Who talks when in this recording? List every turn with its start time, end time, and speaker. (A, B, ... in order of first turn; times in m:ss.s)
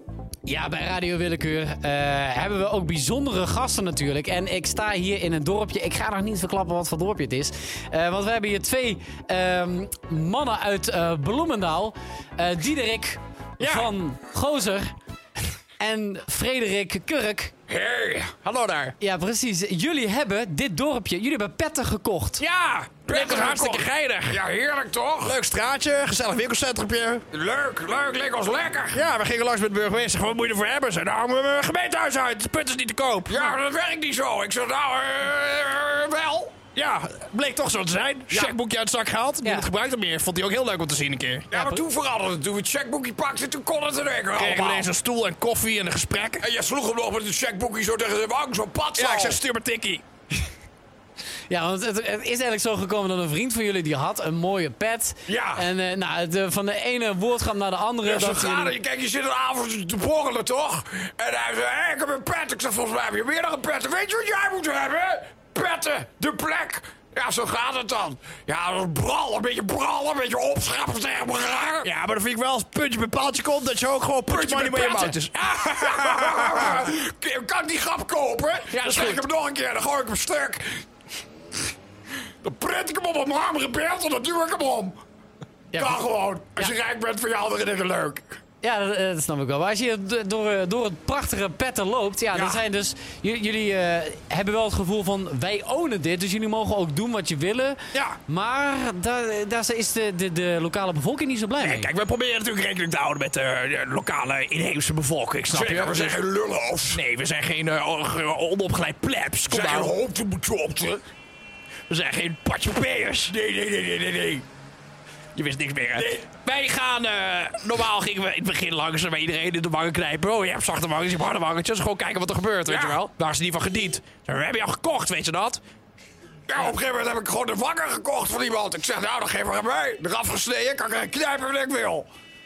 0:00.4-0:14.9 A
0:13.6-0:13.9 B
0:15.8-0:17.5 A
0:17.7-0:18.4 C
0:18.4-0:18.9 B
0:19.0-0:22.4 A
0:22.4-0:24.4 B
0:23.1-0:25.4 C
0:25.2-0:27.2 B
0:27.3-0:29.0 C
0:28.9-0:33.5 B
0:33.2-0:36.5 C
0:36.7-0:41.5 B
0:41.5-0:44.9 C
0:41.5-0:41.8 A
0:44.3-0:46.4 B
0:46.4-0:49.4 C
0:49.0-0:50.0 B
0:51.5-0:58.8 A
0:55.3-0:55.6 C
0:58.0-1:11.9 C
1:11.8-1:16.8 B
1:14.3-1:20.8 C
1:18.7-1:19.2 B
1:22.4-1:25.0 C
1:25.7-1:26.0 A
1:25.8-1:28.3 C
1:28.6-1:41.9 A
1:32.3-1:32.6 B
1:37.9-1:38.2 B
1:41.6-1:46.2 B
1:45.5-1:47.0 C
1:46.9-1:49.9 B
1:49.5-1:51.0 C
1:51.9-1:53.3 B
1:53.3-1:54.4 C
1:55.3-2:05.6 B
1:55.9-1:56.3 C
2:02.7-2:03.0 C
2:06.5-2:12.1 C